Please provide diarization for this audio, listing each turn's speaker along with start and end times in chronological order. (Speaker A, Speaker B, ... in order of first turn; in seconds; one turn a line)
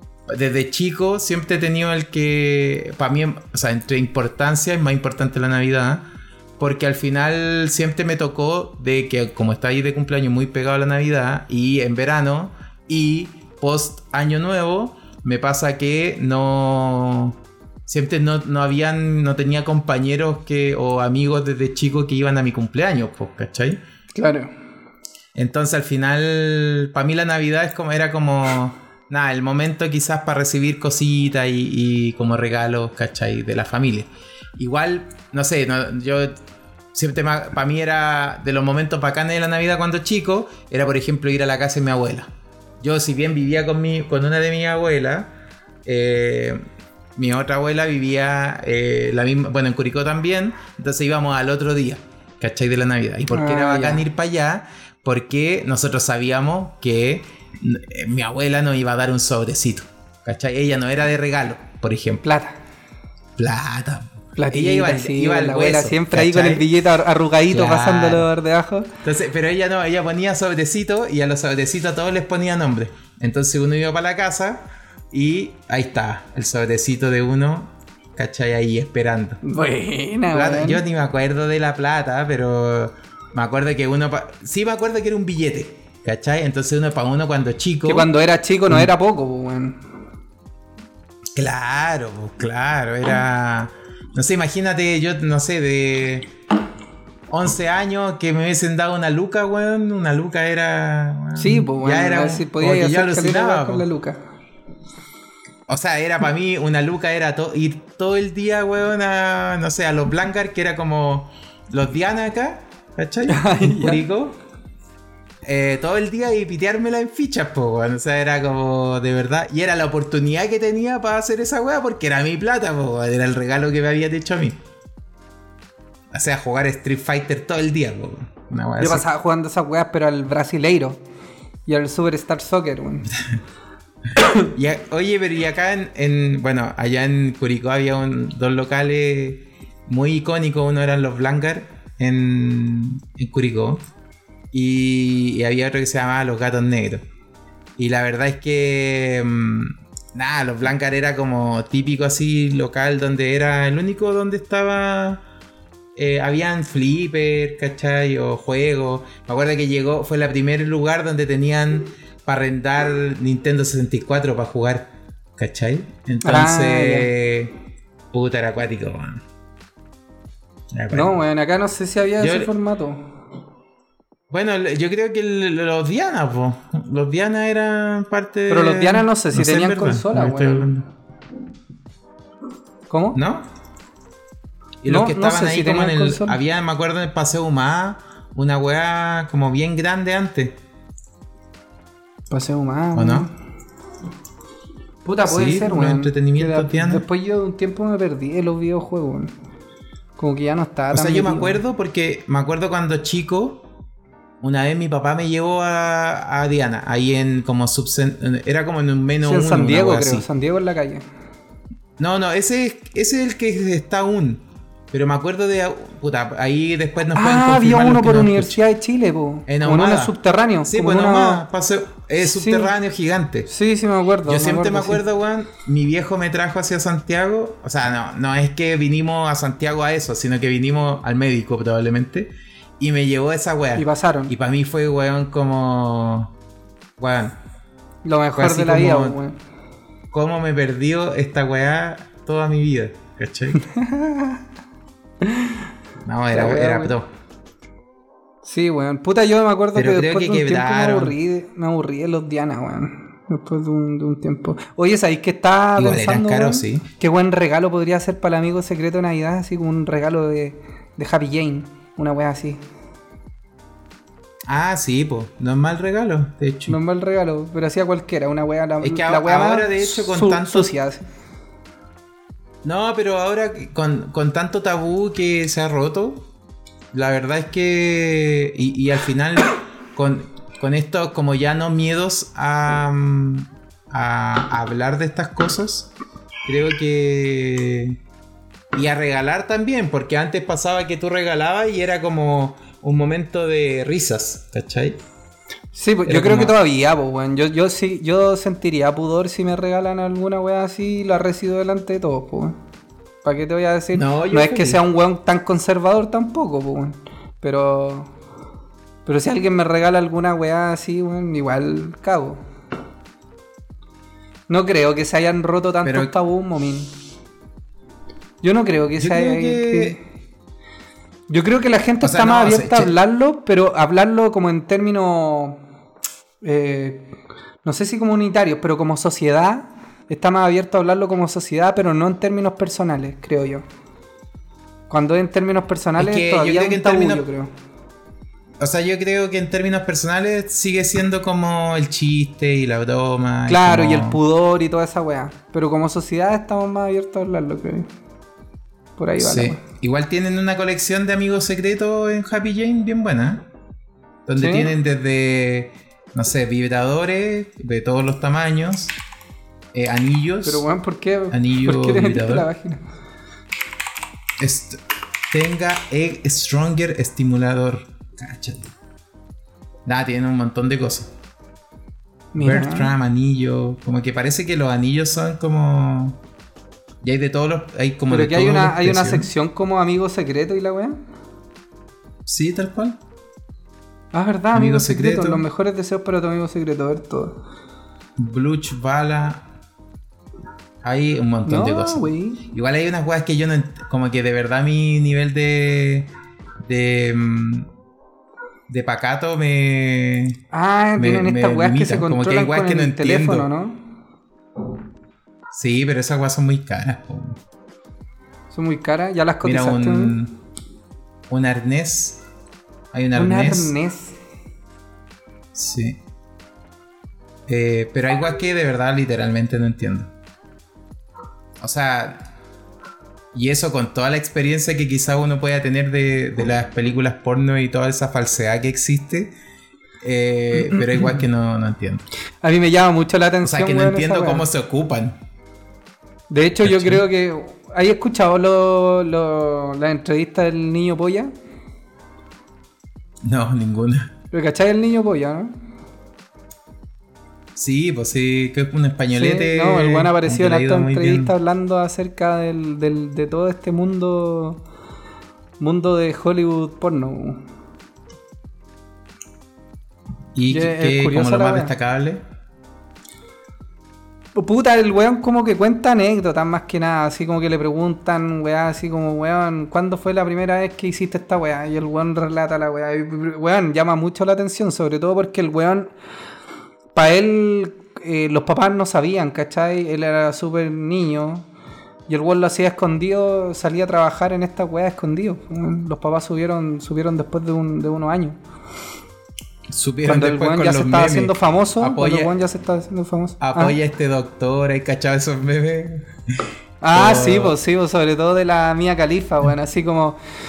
Speaker A: 0.3-23.8
Speaker B: 24.1-24.5
Speaker A: 25.4-36.4
Speaker A: 36.9-45.3
Speaker A: 45.9-46.6
Speaker A: 47.2-62.2
Speaker B: 53.3-54.0
Speaker B: 62.2-62.6
Speaker A: 63.4-66.7
Speaker B: 64.4-68.9
Speaker A: 67.5-68.3
Speaker A: 69.0-79.4
Speaker B: 79.4-80.8
Speaker A: 80.3-88.1
Speaker B: 87.8-89.8
Speaker A: 91.3-96.3
Speaker A: 97.3-103.9
Speaker B: 101.4-104.2
Speaker A: 105.7-114.4
Speaker B: 113.3-114.0
Speaker A: 115.4-124.6
Speaker A: 126.1-129.1
Speaker B: 128.8-131.0
Speaker B: 131.7-133.1
Speaker A: 134.4-143.8
Speaker A: 144.5-147.1
Speaker A: 147.8-155.2
Speaker A: 156.0-167.5
Speaker B: 166.2-167.1
Speaker A: 168.1-169.2
Speaker A: 170.7-171.2
Speaker B: 170.9-173.0
Speaker A: 172.2-172.5
Speaker A: 174.3-180.9
Speaker B: 178.5-180.7
Speaker B: 182.9-183.2
Speaker A: 183.2-183.5
Speaker A: 184.8-190.6
Speaker B: 184.9-186.4
Speaker B: 192.3-193.3
Speaker A: 192.9-193.3
Speaker B: 195.1-199.3
Speaker A: 195.2-197.1
Speaker B: 200.2-201.6
Speaker A: 200.9-203.7
Speaker A: 204.4-210.3
Speaker B: 209.2-211.0
Speaker A: 212.0-218.6
Speaker B: 217.2-221.4
Speaker A: 219.5-220.2
Speaker A: 220.7-223.5
Speaker B: 222.2-222.7
Speaker B: 223.5-225.0
Speaker A: 224.2-236.3
Speaker B: 233.8-234.3
Speaker A: 237.0-237.4
Speaker B: 238.1-239.3
Speaker A: 238.4-239.2
Speaker A: 240.1-243.6
Speaker B: 243.6-244.4
Speaker B: 245.2-245.6
Speaker A: 246.1-247.1
Speaker B: 246.3-246.9
Speaker B: 248.4-262.6
Speaker A: 249.8-251.2
Speaker A: 255.8-256.9
Speaker A: 264.5-266.8
Speaker B: 266.7-271.1
Speaker A: 268.8-270.7
Speaker A: 272.6-276.3
Speaker A: 276.9-285.9
Speaker A: 286.5-288.0
Speaker A: 288.7-295.0
Speaker B: 295.8-302.6
Speaker A: 296.1-296.5
Speaker B: 303.2-308.1
Speaker A: 303.9-304.8
Speaker B: 309.1-312.4
Speaker B: 314.5-316.9
Speaker A: 315.8-316.1
Speaker B: 318.4-320.0
Speaker A: 319.0-320.0
Speaker B: 321.3-325.6
Speaker A: 322.0-322.9
Speaker B: 326.4-327.1
Speaker B: 327.6-333.6
Speaker B: 334.9-337.5
Speaker A: 336.0-337.3
Speaker A: 338.6-344.2
Speaker B: 343.5-347.9
Speaker B: 349.0-349.6
Speaker A: 349.2-353.5
Speaker A: 354.3-358.9
Speaker B: 354.4-354.7
Speaker A: 359.7-360.7
Speaker B: 360.4-362.8
Speaker A: 361.3-362.5
Speaker A: 364.4-368.7
Speaker A: 369.9-371.1
Speaker B: 372.3-372.9
Speaker A: 372.4-376.2
Speaker A: 377.0-379.3
Speaker B: 378.1-381.0
Speaker A: 382.3-383.0
Speaker B: 384.1-387.4
Speaker A: 384.5-385.4
Speaker A: 388.2-389.4
Speaker A: 390.8-396.1
Speaker B: 391.5-392.4
Speaker A: 396.6-397.7
Speaker A: 398.7-400.4
Speaker B: 400.5-403.8
Speaker A: 401.0-403.5
Speaker A: 405.5-407.4
Speaker B: 408.5-410.2
Speaker A: 409.4-410.4
Speaker A: 411.3-412.2
Speaker A: 412.9-413.7
Speaker B: 413.1-414.2
Speaker A: 415.5-416.0
Speaker A: 417.5-420.1
Speaker A: 421.6-422.2
Speaker A: 423.3-429.3
Speaker A: 430.0-432.0
Speaker B: 432.4-434.5
Speaker A: 433.4-435.2
Speaker B: 436.3-441.3
Speaker A: 436.6-437.0
Speaker A: 443.2-444.1
Speaker B: 444.3-445.5
Speaker A: 447.6-451.3
Speaker B: 449.1-454.6
Speaker B: 455.6-457.4
Speaker A: 460.4-462.2
Speaker B: 460.5-461.7
Speaker B: 464.4-475.9
Speaker B: 476.9-481.5
Speaker B: 482.1-488.4
Speaker A: 489.7-492.3
Speaker B: 490.0-493.8
Speaker A: 493.4-496.1
Speaker B: 496.8-500.2
Speaker A: 496.9-497.6